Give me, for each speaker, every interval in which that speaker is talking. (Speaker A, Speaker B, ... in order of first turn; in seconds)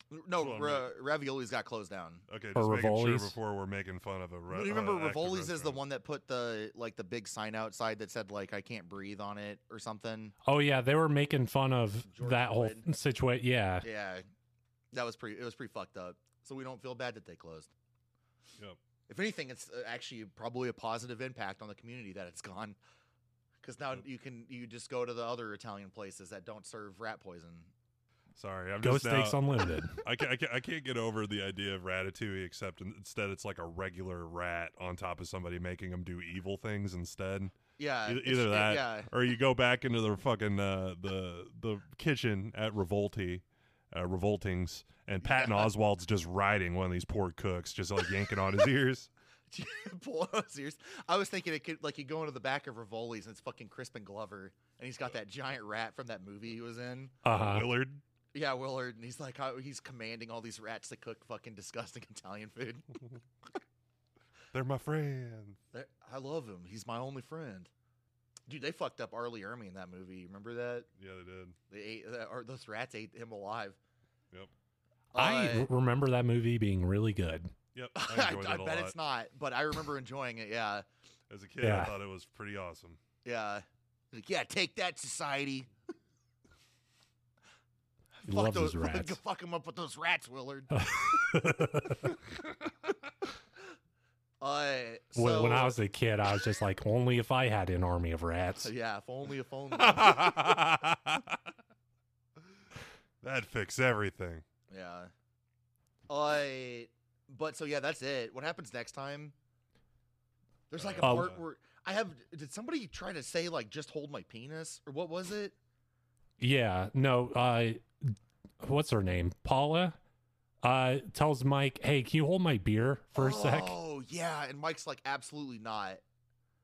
Speaker A: 0.1-2.2, 4.5-10.3, 12.1-12.8, 13.8-14.2, 14.9-17.7, 19.1-22.8, 23.6-27.7, 37.8-39.1, 45.2-45.7, 49.5-57.1, 58.3-63.0, 65.7-67.7, 68.5-70.9, 71.7-73.8, 75.1-75.7, 78.0-80.8, 83.2-85.7, 88.2-91.3, 94.4-95.8, 98.6-100.5, 104.7-105.1, 106.1-109.3, 110.7-115.5, 123.2-126.0
Speaker B: 0.4-0.9, 2.3-5.8, 28.3-29.4, 30.0-49.1, 57.4-58.0, 64.5-65.6, 71.0-71.5, 77.7-79.0, 81.3-83.0, 99.7-101.4, 103.2-104.4, 110.7-111.4
Speaker C: 2.5-3.4, 10.4-13.9, 28.8-30.0, 57.2-57.7, 75.2-77.5, 81.6-81.9, 88.2-89.2, 90.7-92.1, 95.2-98.7, 111.0-111.3, 116.4-120.0, 120.6-123.8